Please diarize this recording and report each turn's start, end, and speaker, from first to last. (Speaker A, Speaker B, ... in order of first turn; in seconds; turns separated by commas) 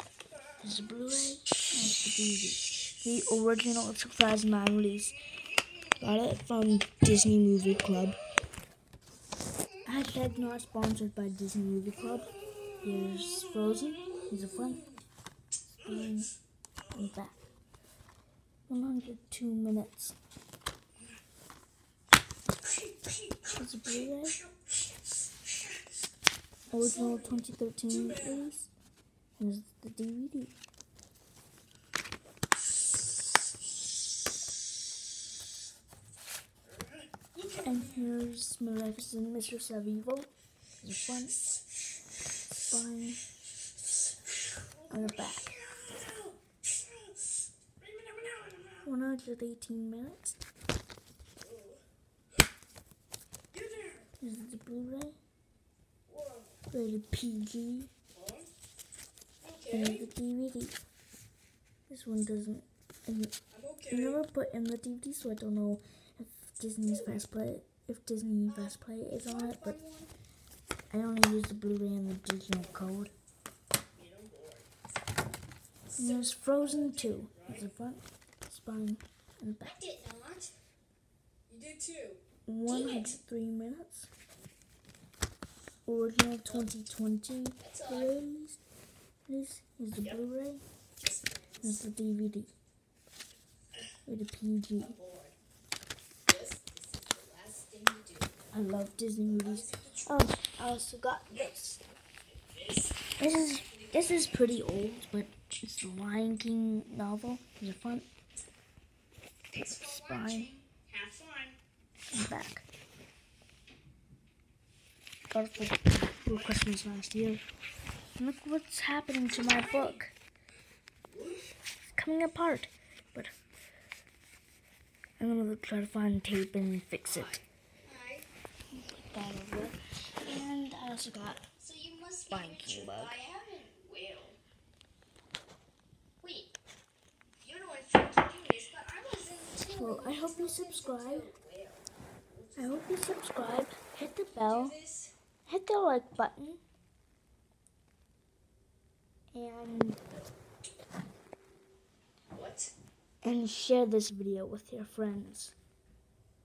Speaker A: 0.6-5.2, Speaker A: 6.0-8.2, Speaker A: 9.8-14.8, Speaker B: 14.7-14.9, Speaker A: 15.7-16.3, Speaker A: 16.9-17.4, Speaker A: 18.7-20.1, Speaker B: 22.6-24.7, Speaker A: 23.5-24.4, Speaker B: 26.7-28.4, Speaker A: 26.7-28.7, Speaker A: 29.4-30.5, Speaker B: 36.8-38.1, Speaker A: 37.5-41.4, Speaker A: 42.6-43.2, Speaker B: 44.8-46.4, Speaker A: 44.9-45.5, Speaker B: 47.8-48.9, Speaker A: 48.8-50.4, Speaker B: 51.4-51.8, Speaker B: 53.5-54.1, Speaker A: 54.2-55.2, Speaker B: 56.0-56.6, Speaker A: 56.7-57.9, Speaker B: 58.1-58.5, Speaker B: 59.4-60.1, Speaker A: 59.7-60.8, Speaker A: 61.9-63.3, Speaker B: 63.5-64.2, Speaker A: 63.9-69.8, Speaker B: 66.8-67.2, Speaker B: 68.5-70.1, Speaker A: 70.9-73.1, Speaker B: 73.9-74.7, Speaker B: 75.9-77.6, Speaker A: 75.9-79.7, Speaker B: 79.6-80.5, Speaker B: 81.5-83.2, Speaker A: 82.5-84.1, Speaker A: 85.8-88.6, Speaker B: 87.6-88.2, Speaker A: 89.3-90.6, Speaker B: 91.0-91.8, Speaker A: 91.6-92.5, Speaker A: 94.0-94.9, Speaker B: 94.8-95.3, Speaker B: 96.2-98.4, Speaker A: 98.5-101.8, Speaker B: 99.3-100.2, Speaker B: 102.3-104.1, Speaker A: 103.2-108.1, Speaker B: 109.5-111.6, Speaker A: 109.6-110.5, Speaker A: 112.1-112.7, Speaker A: 115.3-117.4, Speaker A: 118.2-120.1, Speaker B: 119.5-120.0, Speaker A: 122.0-123.3, Speaker A: 125.2-127.4, Speaker B: 127.1-128.3, Speaker A: 128.7-131.4, Speaker B: 131.6-134.4, Speaker A: 132.3-133.1, Speaker B: 136.2-136.5, Speaker B: 137.4-143.0, Speaker A: 139.6-141.3, Speaker A: 142.6-144.7, Speaker B: 144.4-145.1, Speaker A: 145.4-146.6, Speaker A: 149.3-150.0, Speaker B: 152.3-152.7, Speaker A: 153.2-155.5